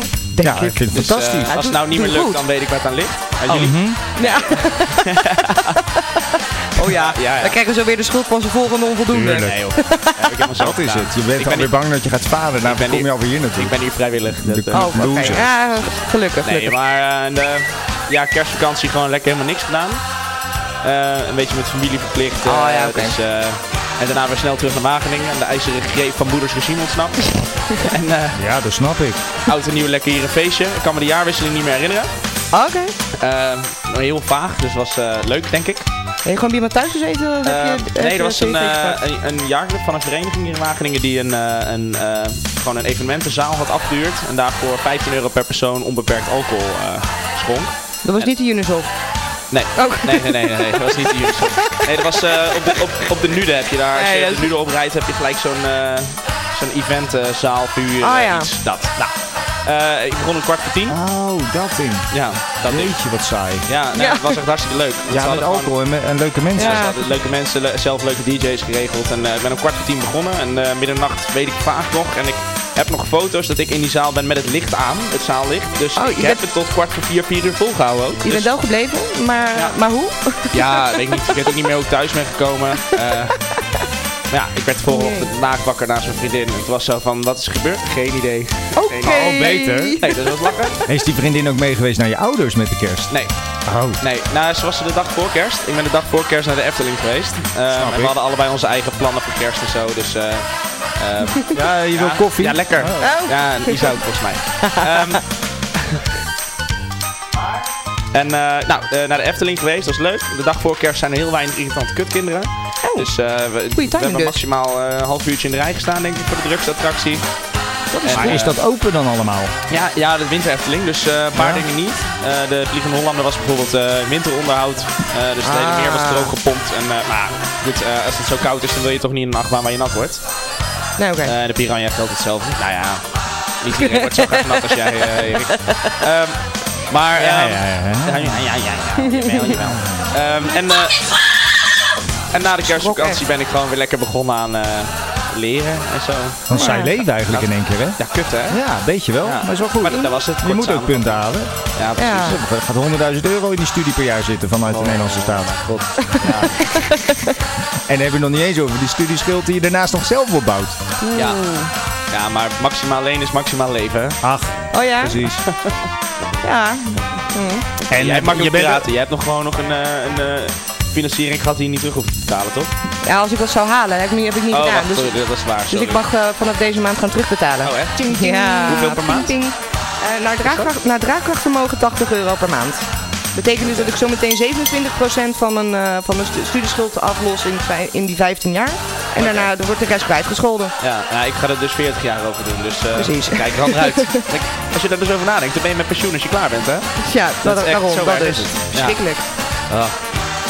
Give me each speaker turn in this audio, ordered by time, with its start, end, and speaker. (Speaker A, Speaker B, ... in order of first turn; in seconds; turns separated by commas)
Speaker A: 0.3-1.6, Speaker B: 0.4-0.8, Speaker C: 0.9-5.8, Speaker B: 1.5-2.4, Speaker A: 3.5-4.1, Speaker B: 3.5-6.0, Speaker B: 6.7-10.3, Speaker C: 6.8-7.6, Speaker A: 9.1-9.6, Speaker C: 9.3-11.7, Speaker A: 10.6-15.5, Speaker C: 12.6-20.2, Speaker B: 14.7-16.7, Speaker C: 20.8-28.4, Speaker B: 22.4-23.1, Speaker A: 28.3-29.2, Speaker C: 29.5-32.1, Speaker B: 32.5-32.9, Speaker C: 33.2-35.9, Speaker B: 36.2-39.0, Speaker C: 37.4-48.3, Speaker B: 48.0-52.4, Speaker C: 49.5-61.0, Speaker B: 53.9-54.5, Speaker B: 58.0-58.5, Speaker A: 60.9-63.7, Speaker C: 62.1-63.0, Speaker C: 63.6-65.7, Speaker B: 63.9-64.4, Speaker A: 65.1-66.9, Speaker C: 66.5-78.5, Speaker B: 66.5-67.1, Speaker B: 76.0-76.4, Speaker B: 78.2-81.2, Speaker C: 80.5-83.4, Speaker C: 84.3-90.8, Speaker B: 84.9-85.3, Speaker B: 88.8-90.1, Speaker A: 89.0-90.0, Speaker A: 90.8-93.1, Speaker A: 93.6-94.0, Speaker C: 94.0-105.3, Speaker A: 97.7-98.1, Speaker A: 101.5-103.2, Speaker B: 103.0-104.0, Speaker C: 108.1-117.2, Speaker B: 112.8-113.1, Speaker B: 113.7-114.4, Speaker B: 117.9-118.4, Speaker A: 118.0-119.5, Speaker C: 118.0-118.6, Speaker C: 119.7-130.2, Speaker A: 121.3-121.6, Speaker B: 125.4-126.3, Speaker B: 131.0-131.3, Speaker C: 131.2-141.1, Speaker B: 133.8-134.5, Speaker A: 137.1-138.4, Speaker A: 139.6-140.1, Speaker C: 142.3-148.6, Speaker B: 142.6-143.2, Speaker A: 146.5-156.4, Speaker B: 146.5-146.9, Speaker C: 149.2-151.2, Speaker C: 151.7-152.4, Speaker B: 152.0-152.3, Speaker C: 154.7-156.8, Speaker B: 156.7-157.2, Speaker A: 157.9-160.9, Speaker B: 161.0-161.7, Speaker C: 161.1-161.4, Speaker C: 162.1-164.2, Speaker A: 164.2-165.4, Speaker B: 164.7-165.2, Speaker C: 165.4-165.7, Speaker B: 166.4-167.7, Speaker C: 167.9-172.7, Speaker A: 167.9-168.9, Speaker B: 173.0-190.7, Speaker C: 174.5-176.0, Speaker C: 177.6-179.3, Speaker C: 180.4-180.7, Speaker C: 183.6-183.9, Speaker C: 189.2-189.5, Speaker C: 190.8-199.0, Speaker B: 192.9-194.2, Speaker B: 197.0-199.2, Speaker C: 199.7-200.0